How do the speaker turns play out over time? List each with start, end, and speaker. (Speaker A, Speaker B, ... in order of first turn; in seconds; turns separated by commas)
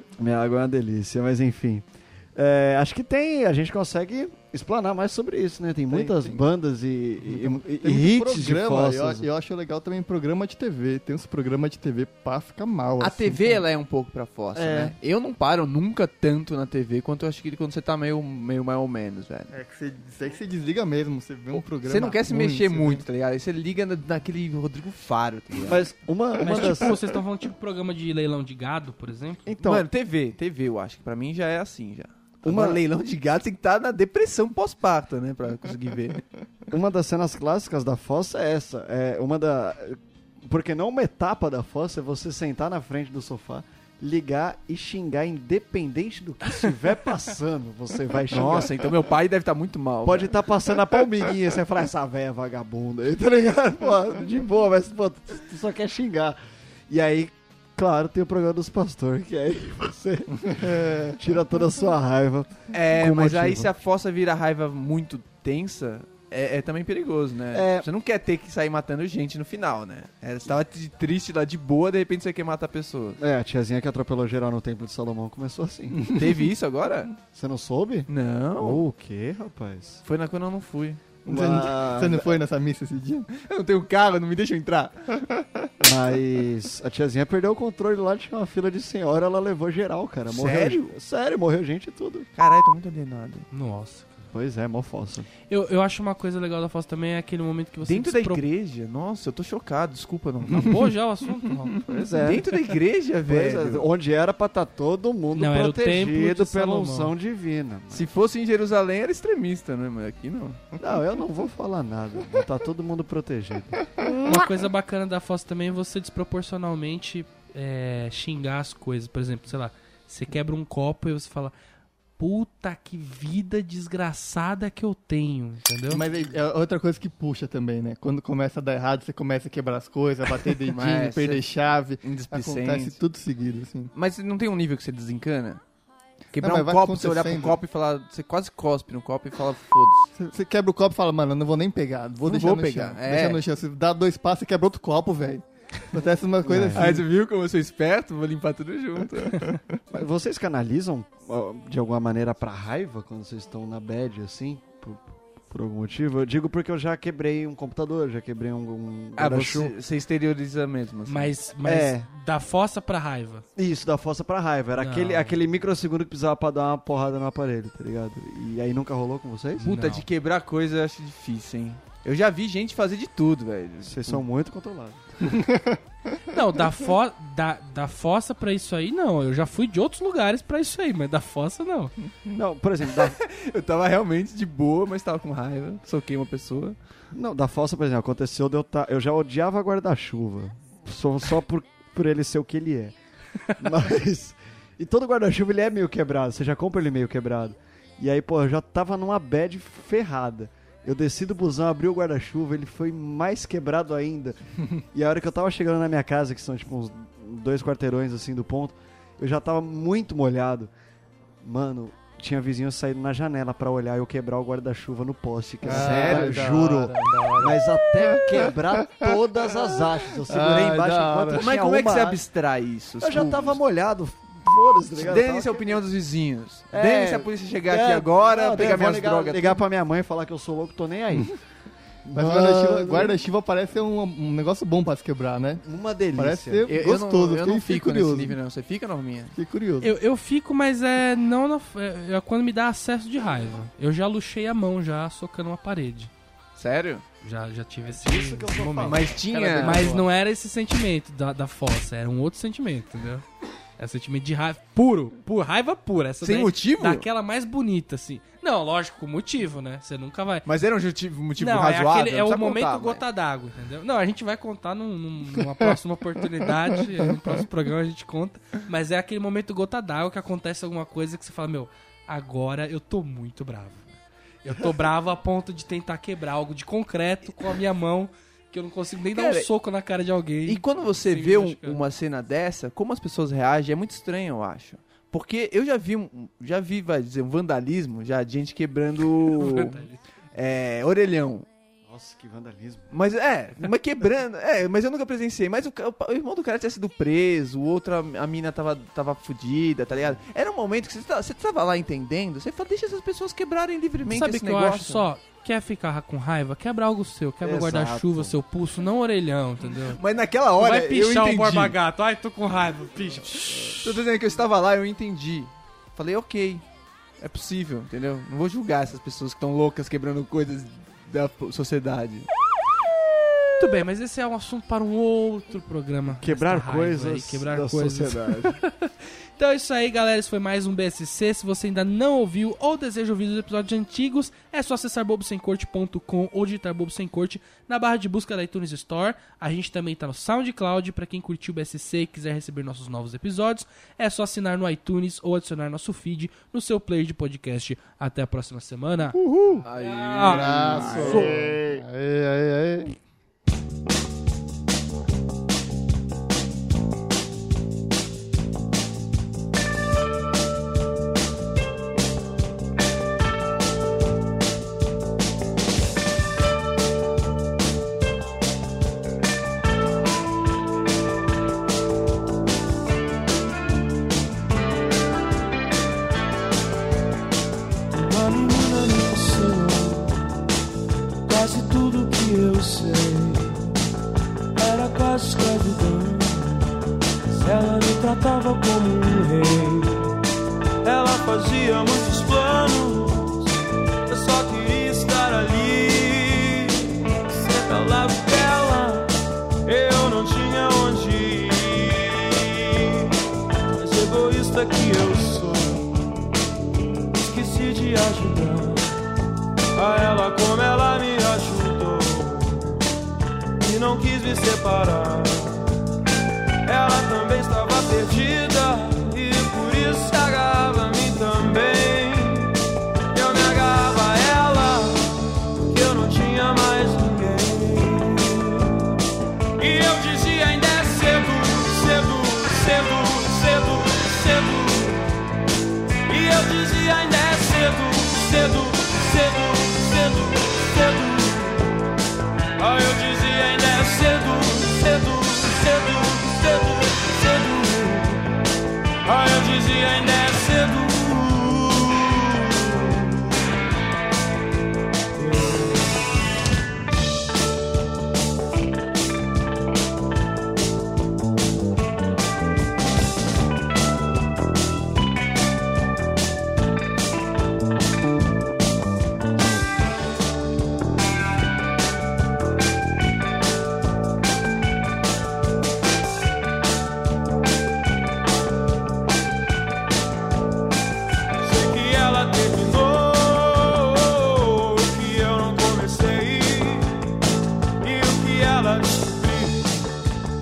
Speaker A: 0.2-9.3, Speaker B: 5.9-6.4, Speaker B: 7.2-13.6, Speaker C: 13.0-19.5, Speaker A: 14.5-14.9, Speaker B: 19.5-23.0, Speaker C: 21.5-25.8, Speaker A: 25.6-27.0, Speaker D: 26.4-29.4, Speaker A: 29.4-29.9, Speaker C: 29.6-36.2, Speaker A: 32.4-32.8, Speaker A: 36.7-48.9, Speaker C: 48.3-50.3, Speaker A: 50.0-63.7, Speaker B: 60.6-61.2, Speaker C: 62.7-73.2, Speaker A: 67.5-67.9, Speaker A: 73.2-76.1, Speaker C: 76.0-77.1, Speaker A: 77.3-80.0, Speaker C: 78.1-78.8, Speaker C: 80.0-81.0, Speaker A: 81.2-82.4, Speaker B: 81.2-83.3, Speaker C: 83.3-85.0, Speaker A: 85.8-92.3, Speaker C: 90.3-90.9, Speaker C: 92.4-93.5, Speaker D: 93.5-94.2, Speaker A: 94.3-95.3, Speaker D: 95.5-98.4, Speaker C: 97.8-100.9, Speaker D: 100.5-101.8, Speaker A: 101.9-102.5, Speaker C: 102.2-103.9, Speaker A: 103.2-108.1, Speaker D: 105.3-107.1, Speaker C: 107.9-110.6, Speaker A: 110.8-113.8, Speaker D: 114.2-121.5, Speaker D: 122.2-126.0, Speaker B: 125.9-133.9, Speaker C: 130.6-131.4, Speaker C: 132.0-133.0, Speaker C: 133.9-135.6, Speaker C: 136.3-140.1, Speaker B: 136.4-137.6, Speaker B: 140.2-147.0, Speaker C: 142.2-143.4, Speaker A: 146.4-147.0, Speaker C: 146.7-149.6, Speaker A: 149.9-159.7, Speaker C: 159.2-161.3, Speaker D: 161.1-163.4, Speaker A: 161.6-162.1, Speaker A: 163.6-169.8, Speaker D: 164.8-165.3, Speaker D: 169.6-170.0, Speaker C: 169.6-174.2, Speaker A: 173.8-175.1, Speaker D: 176.3-181.9, Speaker A: 182.2-183.2, Speaker C: 182.9-186.8, Speaker A: 187.1-192.9, Speaker A: 193.6-204.4, Speaker A: 204.9-210.7, Speaker A: 211.4-222.2, Speaker B: 215.6-218.5, Speaker C: 215.7-216.6, Speaker B: 220.1-221.5, Speaker C: 221.3-223.6, Speaker A: 223.0-225.8, Speaker C: 224.9-229.6, Speaker A: 226.7-231.4, Speaker A: 232.0-233.2, Speaker B: 232.1-235.6, Speaker A: 235.6-236.7, Speaker B: 236.1-238.4, Speaker C: 236.7-239.3, Speaker B: 239.3-239.9, Speaker D: 239.8-246.1, Speaker C: 246.6-247.0, Speaker D: 247.2-253.2, Speaker A: 247.8-250.0, Speaker C: 248.8-250.0, Speaker D: 253.8-260.4, Speaker C: 256.2-257.1, Speaker C: 260.4-263.0, Speaker D: 261.4-273.9, Speaker D: 274.4-281.8, Speaker C: 279.1-279.5, Speaker C: 280.5-289.8, Speaker D: 289.3-290.0, Speaker C: 290.3-291.5, Speaker A: 291.9-292.9, Speaker C: 292.9-305.1, Speaker D: 304.1-310.0, Speaker A: 307.4-308.4, Speaker C: 309.9-311.8, Speaker D: 310.6-313.8, Speaker C: 313.8-316.6, Speaker C: 317.2-322.3, Speaker D: 323.6-349.2, Speaker A: 326.2-328.6, Speaker C: 349.2-351.3, Speaker D: 349.7-351.2, Speaker B: 350.2-352.9, Speaker A: 350.2-351.8, Speaker E: 377.9-380.4, Speaker E: 381.2-383.8, Speaker E: 384.6-386.8, Speaker E: 387.3-390.1, Speaker E: 390.8-393.5, Speaker E: 394.1-399.1, Speaker E: 399.6-403.1, Speaker E: 403.8-406.0, Speaker E: 407.1-409.0, Speaker E: 409.7-412.8, Speaker E: 413.6-415.7, Speaker E: 416.6-422.6, Speaker E: 423.1-428.9, Speaker E: 429.6-435.1, Speaker E: 436.1-441.7, Speaker E: 442.6-448.2, Speaker E: 449.0-453.5, Speaker E: 455.2-456.0, Speaker E: 481.4-487.1, Speaker E: 487.8-489.8